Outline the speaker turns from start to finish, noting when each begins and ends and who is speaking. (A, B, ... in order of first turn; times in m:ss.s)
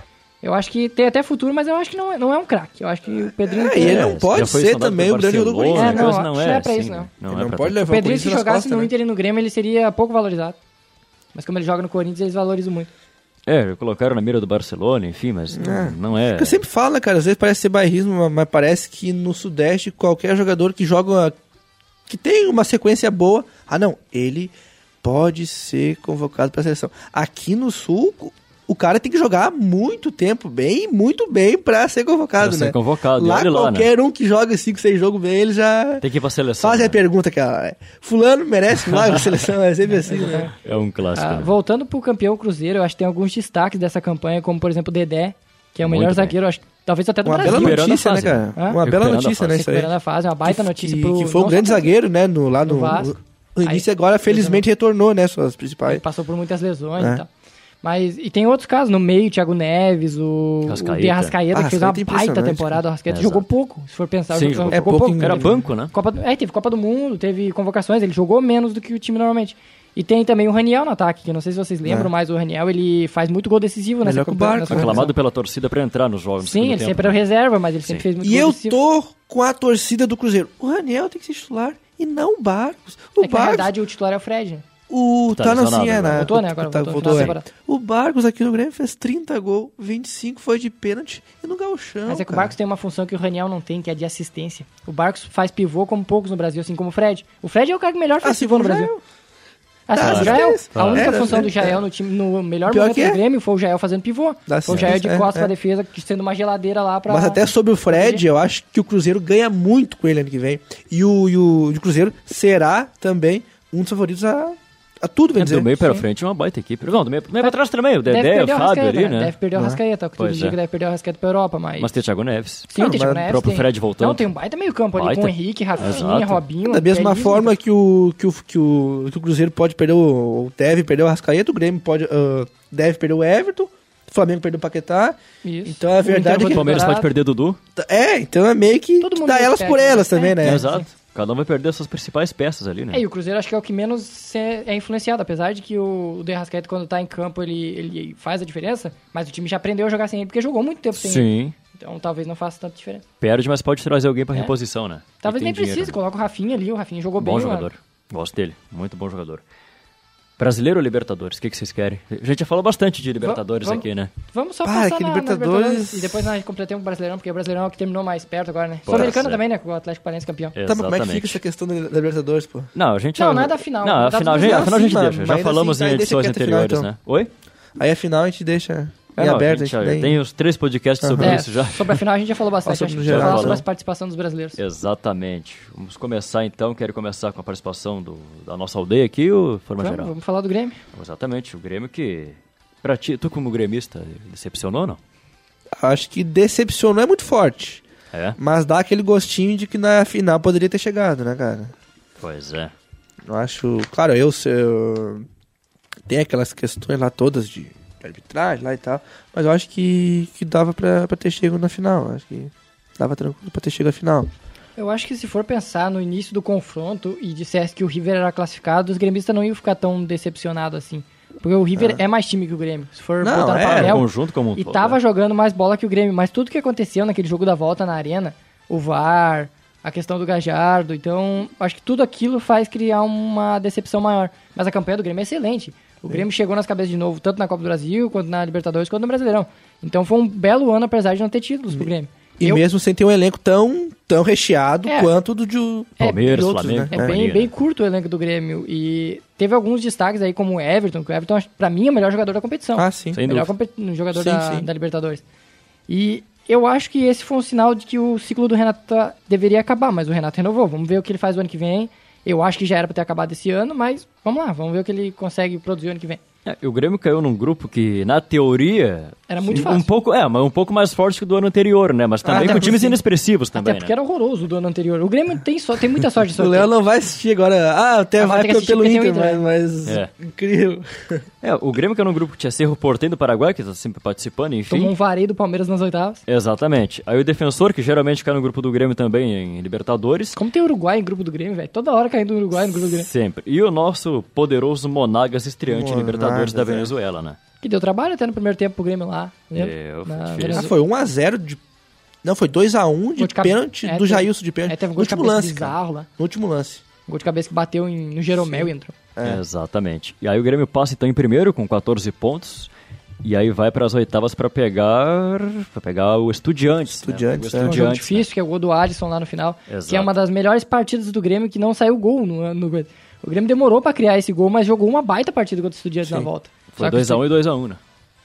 0:00.4-0:04.1 A
0:03.4-0:06.2 B
0:03.8-0:07.8 C
0:05.7-0:07.1 A
0:07.3-0:08.9 B
0:07.9-0:10.6 A
0:11.3-0:12.9 A
0:13.4-0:16.6 C
0:15.5-0:21.4 B
0:22.1-0:36.0 B
0:32.4-0:33.9 C
0:36.0-0:37.0 C
0:36.6-0:40.5 B
0:39.9-0:40.5 A
0:40.6-0:41.5 C
0:41.1-0:47.9 A
0:45.8-0:46.3 C
0:47.2-0:49.9 B
0:47.4-0:49.6 C
0:49.5-0:51.9 A
0:50.4-0:56.0 B
0:52.6-0:54.6 A
0:55.8-0:57.3 A
0:57.0-0:57.2 B
0:57.8-1:15.1 A
1:00.7-1:01.3 C
1:01.5-1:02.8 B
1:03.1-1:03.4 C
1:04.3-1:05.9 C
1:04.7-1:05.6 B
1:11.8-1:12.1 B
1:14.0-1:15.1 B
1:14.7-1:17.2 C
1:16.4-1:18.8 A
1:18.2-1:23.7 B
1:23.2-1:24.6 A
1:24.9-1:32.5 B
1:25.3-1:26.3 C
1:26.1-1:27.4 A
1:27.0-1:27.3 C
1:32.1-1:38.9 A
1:38.2-1:39.0 B
1:39.9-1:48.2 A
1:39.9-1:41.8 B
1:40.0-1:41.4 C
1:42.7-1:43.2 B
1:44.5-1:45.5 B
1:44.7-1:44.9 C
1:47.1-1:55.7 B
1:55.4-1:59.3 C
1:57.4-2:01.9 A
2:00.2-2:00.6 C
2:01.8-2:04.2 C
2:02.7-2:07.5 A
2:02.8-2:03.3 B
2:04.9-2:06.4 C
2:06.6-2:16.8 B
2:15.4-2:17.1 A
2:16.4-2:17.6 C
2:17.8-2:20.8 B
2:19.0-2:20.8 A
2:20.4-2:23.0 C
2:22.9-2:33.0 A
2:31.0-2:31.5 C
2:33.2-2:35.9 C
2:35.2-2:37.7 A
2:37.2-2:39.4 C
2:40.4-2:44.1 C
2:43.2-2:50.5 A
2:44.6-2:46.3 B
2:48.8-2:49.4 C
2:48.9-2:49.2 B
2:50.5-2:51.4 C
2:50.6-2:52.7 B
2:52.7-2:57.3 C
2:53.2-2:55.0 A
2:54.4-2:56.9 B
2:57.8-3:00.2 B
2:59.2-3:02.0 C
3:01.0-3:01.4 B
3:01.2-3:04.6 A
3:02.6-3:03.6 B
3:03.0-3:03.6 C
3:04.6-3:10.1 C
3:09.8-3:10.8 A
3:10.9-3:15.0 C
3:15.8-3:17.8 B
3:18.1-3:18.4 C
3:18.4-3:21.7 B
3:22.2-3:22.7 C
3:23.2-3:25.2 B
3:26.1-3:34.3 B
3:34.8-4:02.6 A
3:43.2-3:44.0 B
3:43.7-3:45.0 C
4:01.7-4:07.2 B
4:04.8-4:05.1 A
4:06.0-4:07.5 C
4:06.0-4:15.2 A
4:12.8-4:13.2 B
4:13.1-4:13.5 C
4:14.1-4:14.7 B
4:15.9-4:26.2 A
4:26.4-4:33.9 C
4:29.3-4:29.9 A
4:32.2-4:33.0 B
4:33.5-4:36.7 A
4:36.3-4:41.2 B
4:38.2-4:39.4 A
4:39.8-4:40.1 C
4:41.4-4:44.9 C
4:44.7-4:46.2 A
4:46.3-4:50.4 C
4:50.4-4:53.1 A
4:52.9-4:57.4 C
4:55.7-4:56.9 B
4:57.6-5:00.7 A
4:59.5-5:00.7 C
5:00.5-5:01.6 B
5:02.2-5:06.8 B
5:03.2-5:06.1 A
5:07.1-5:08.9 A
5:08.4-5:09.4 B
5:09.2-5:12.7 C
5:13.2-5:18.3 C
5:17.0-5:17.8 B
5:17.6-5:27.2 A
5:19.7-5:20.1 C
5:26.7-5:27.8 C